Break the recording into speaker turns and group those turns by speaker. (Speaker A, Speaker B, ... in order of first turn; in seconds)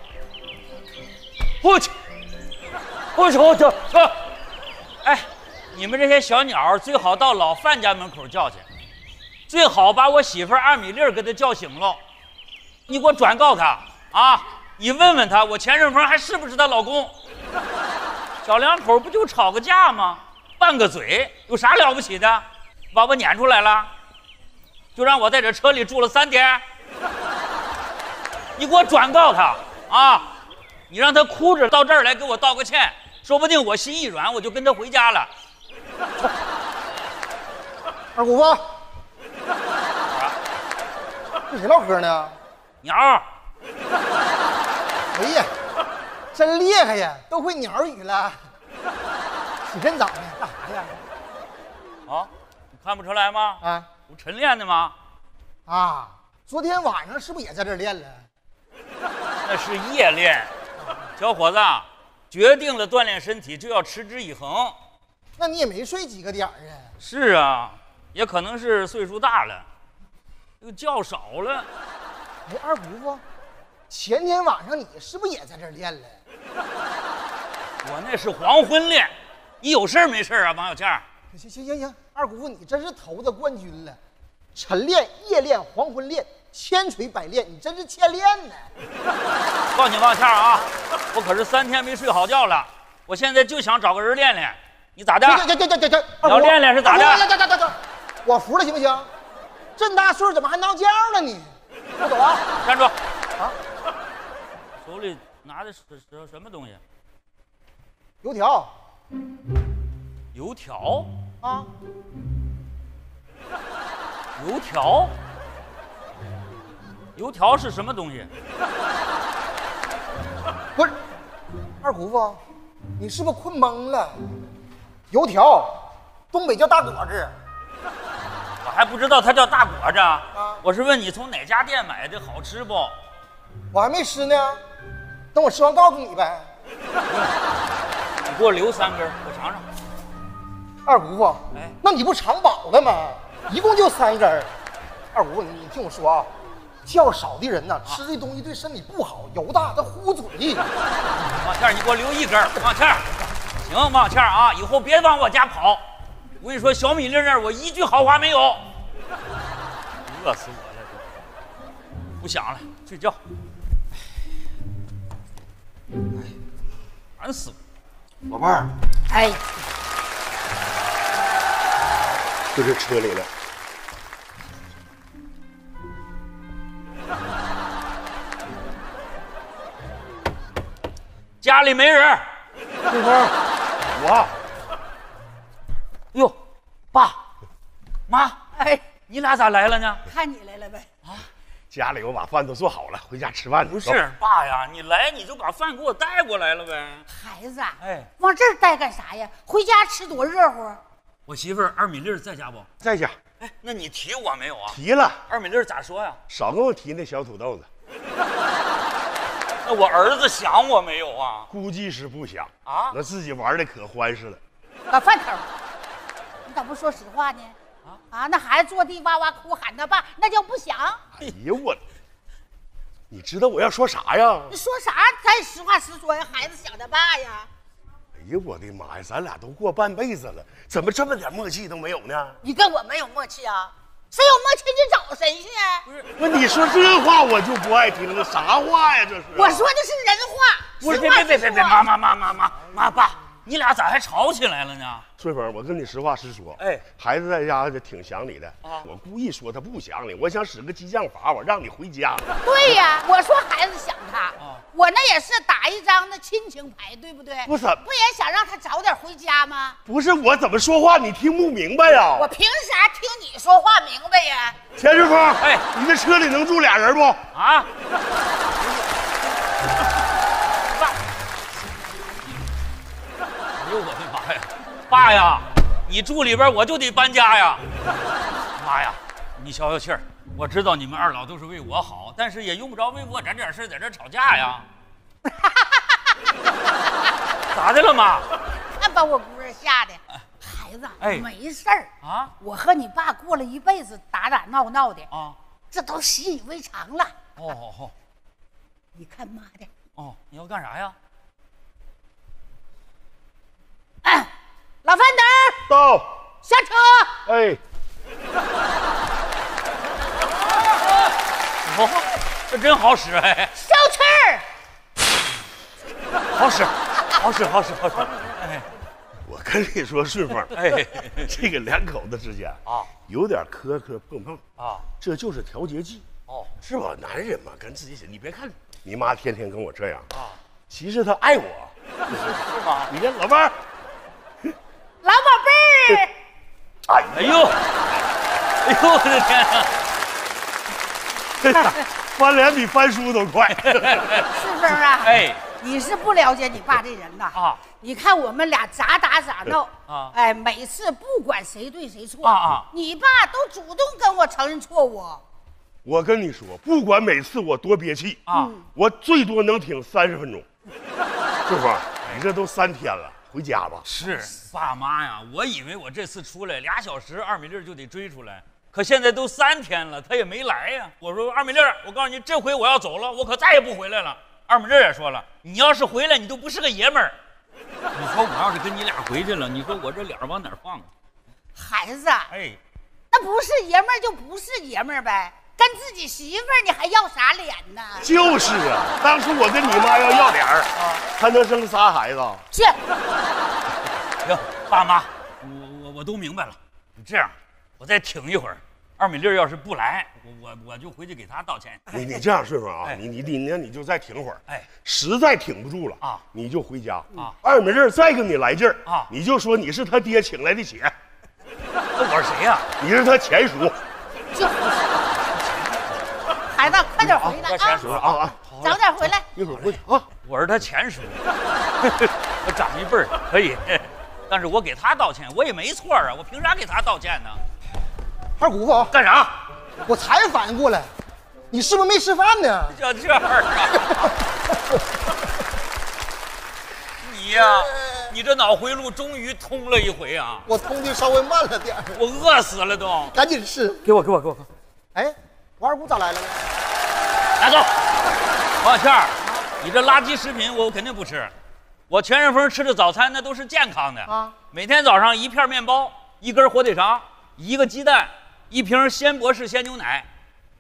Speaker A: 1.6-1.9, 3.1-4.2, 5.0-8.7, 9.5-12.0, 12.9-17.1, 18.4-23.9, 24.9-26.6, 28.6-30.4, 30.9-35.3, 40.1-40.4, 42.8-43.2, 52.1-55.0, 59.4-60.5, 61.2-64.8, 67.0-69.7, 70.6-71.7, 77.8-81.0, 89.7-95.5, 96.2-97.3, 102.6-102.9, 104.8-106.8, 110.3-111.1, 114.4-115.1, 117.2-118.3, 128.6-132.9, 137.1-137.3, 138.2-139.7, 151.3-153.1, 153.6-155.8, 156.4-158.7, 160.1-161.1, 162.2-163.2, 167.2-167.6, 181.4-182.3, 188.1-188.4, 189.1-190.0, 193.8-197.1, 197.8-198.1, 201.3-202.7, 203.4-206.2, 209.6-211.5, 212.7-213.0, 240.8-245.1, 246.6-246.8, 267.3-267.7, 273.6-277.6, 278.6-284.7, 287.5-288.3, 291.0-291.3, 292.0-292.3, 295.1-295.4, 297.4-297.9, 300.0-300.9, 311.7-313.5, 316.3-318.7, 320.6-321.3, 324.6-324.9, 330.1-330.4, 332.1-332.9, 337.1-337.6, 338.6-339.7, 343.6-344.3, 345.0-345.4, 347.3-347.6, 349.9-350.1, 352.2-352.7, 358.3-358.6, 363.9-377.2, 377.9-380.9, 382.3-382.6, 390.8-391.0, 394.2-401.9, 408.9-409.1, 412.0-412.7, 415.2-416.0, 417.4-418.8, 420.2-421.2, 421.8-427.4, 428.9-429.4, 432.7-434.1, 437.0-440.5, 441.9-443.2, 443.8-444.5, 447.4-447.7, 448.6-451.3, 451.9-460.1
Speaker B: 38.1-38.7, 41.5-42.4, 45.1-45.5, 46.3-48.4, 49.7-51.0, 55.7-58.2, 65.4-66.9, 72.5-73.2, 73.9-76.2, 81.3-84.0, 84.5-88.7, 95.2-99.1, 99.8-102.4, 108.2-108.7, 111.4-111.7, 121.8-122.4, 123.0-124.2, 125.1-127.3, 130.3-130.6, 133.7-134.6, 135.3-136.5, 140.8-144.5, 145.1-146.3, 146.8-150.7, 428.4-428.9, 429.9-430.9, 431.5-432.8, 440.5-442.0, 443.2-443.8, 444.9-446.4, 454.1-454.4
Speaker C: 169.1-169.4, 188.6-188.8, 190.1-190.9, 197.1-200.8, 214.9-215.5, 216.4-217.6, 218.1-221.0, 224.5-227.5, 232.4-235.8, 239.3-241.8, 252.4-259.8, 262.1-264.6, 288.8-291.9, 292.4-295.1, 295.7-297.1, 299.0-299.7, 304.0-304.3, 304.9-305.6, 306.4-307.2, 313.6-314.4, 335.0-336.1, 344.3-355.2, 358.3-358.6, 381.6-382.3, 383.1-388.1, 392.5-392.8, 414.3-415.0, 416.5-417.8, 418.6-419.2
Speaker D: 172.5-173.3, 182.9-183.3, 183.9-184.3, 191.7-194.0, 202.8-203.2, 204.7-205.2, 206.3-207.7, 211.5-214.4, 221.2-221.8, 223.1-224.6, 228.2-232.4, 236.2-239.7, 245.2-252.3, 257.5-257.9, 259.9-262.3, 264.8-267.2, 305.7-306.1, 307.3-307.6, 319.2-324.4, 325.0-326.1, 326.6-330.1, 330.7-333.6, 336.9-337.2, 341.4-344.3, 355.8-360.5, 361.5-363.9, 388.0-392.4, 401.9-410.9, 412.8-413.8, 417.2-418.7, 419.4-420.1